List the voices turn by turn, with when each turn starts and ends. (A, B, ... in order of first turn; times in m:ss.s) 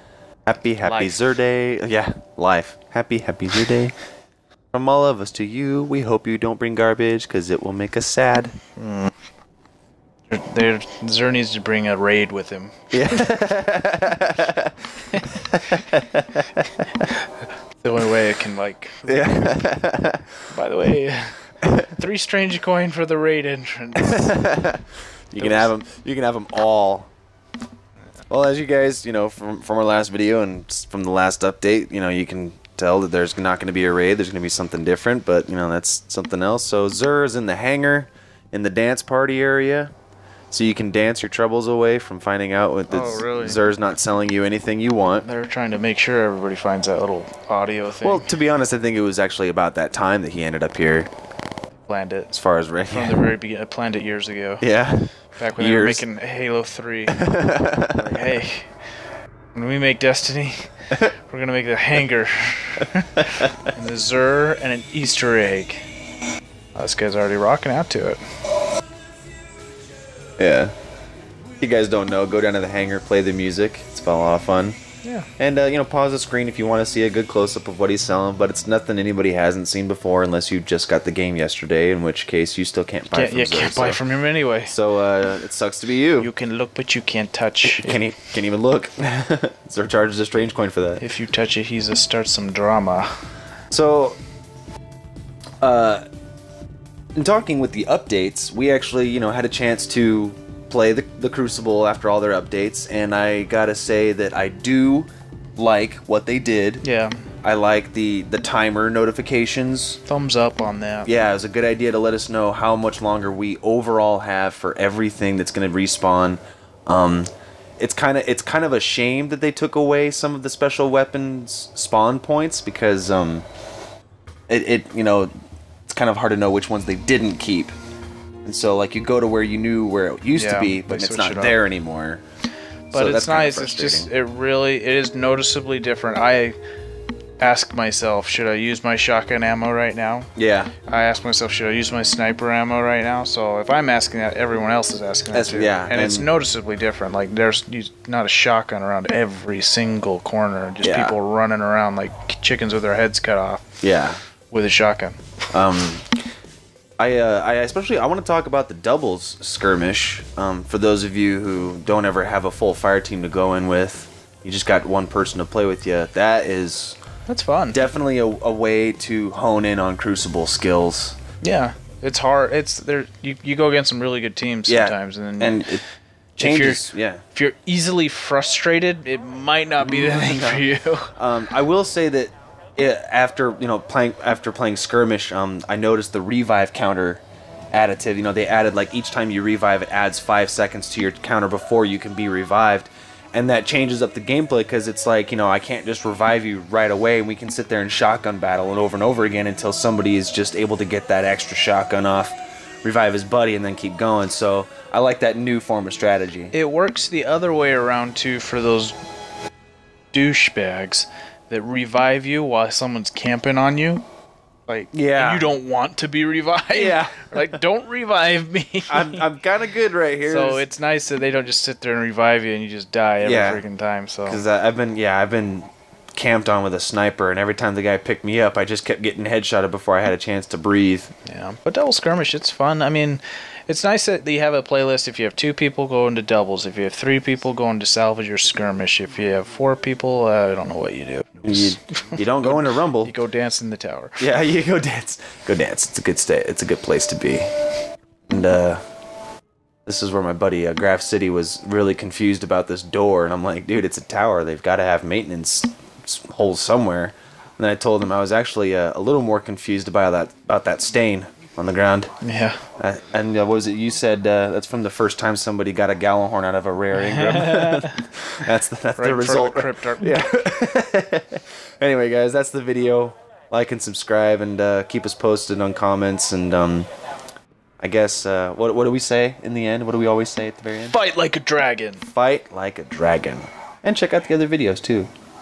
0:00.4-0:03.9 A
0:00.8-0:01.2 B
0:04.7-0:08.5 A
0:08.8-0:09.1 B
0:10.3-0:13.3 B
0:12.9-0:16.7 A
0:17.8-0:19.5 B
0:19.0-0:20.3 A
0:20.5-0:24.4 B
0:21.6-0:21.9 A
0:24.0-0:27.1 A
0:25.4-0:25.7 B
0:28.3-0:39.9 A
0:40.5-0:45.2 A
0:42.9-0:43.6 B
0:45.1-0:48.3 B
0:48.0-0:51.1 A
0:51.9-0:52.3 B
0:52.3-0:53.3 A
0:52.9-0:54.6 B
0:54.6-0:56.0 A
0:55.3-0:57.2 B
0:57.1-0:58.2 A
0:57.9-0:58.7 B
0:59.5-1:00.7 B
1:01.3-1:05.8 B
1:06.7-1:08.2 B
1:10.4-1:10.7 A
1:11.6-1:14.8 A
1:15.0-1:15.3 B
1:15.4-1:24.0 A
1:23.1-1:24.7 B
1:24.7-1:26.3 A
1:26.2-1:28.0 B
1:27.6-1:31.0 A
1:31.0-1:33.1 B
1:33.7-1:34.2 A
1:35.6-1:36.0 A
1:37.1-1:46.8 A
1:46.8-1:47.2 B
1:47.4-1:50.0 A
1:50.0-1:51.1 B
1:51.0-2:03.4 A
2:04.5-2:05.3 A
2:05.9-2:07.7 A
2:08.4-2:12.2 A
2:10.3-2:11.6 B
2:12.9-2:14.1 A
2:12.9-2:16.6 B
2:17.4-2:20.3 B
2:20.4-2:20.7 A
2:20.8-2:33.6 B
2:25.3-2:26.3 A
2:30.8-2:31.1 A
2:33.8-2:34.2 A
2:34.5-2:35.2 B
2:35.5-2:36.1 A
2:37.0-2:47.0 A
2:47.3-2:47.9 B
2:47.7-2:51.2 A
2:51.4-2:55.8 B
2:54.7-2:55.8 A
2:56.4-3:01.1 B
2:56.4-2:57.2 A
2:59.8-3:26.5 A
3:26.5-3:29.0 B
3:30.1-3:34.0 B
3:34.7-3:39.2 B
3:34.9-3:35.5 A
3:36.7-3:37.4 A
3:38.9-3:40.6 A
3:40.2-3:44.4 B
3:43.2-3:43.6 A
3:44.2-3:51.1 A
3:51.2-4:04.2 B
4:01.4-4:03.1 A
4:04.2-4:07.4 A
4:08.3-4:08.8 A
4:09.8-4:22.1 A
4:22.2-4:22.6 B
4:22.8-4:36.9 A
4:27.0-4:28.0 B
4:29.0-4:30.2 B
4:37.8-4:41.0 A
4:40.8-4:42.0 B
4:42.1-4:45.1 A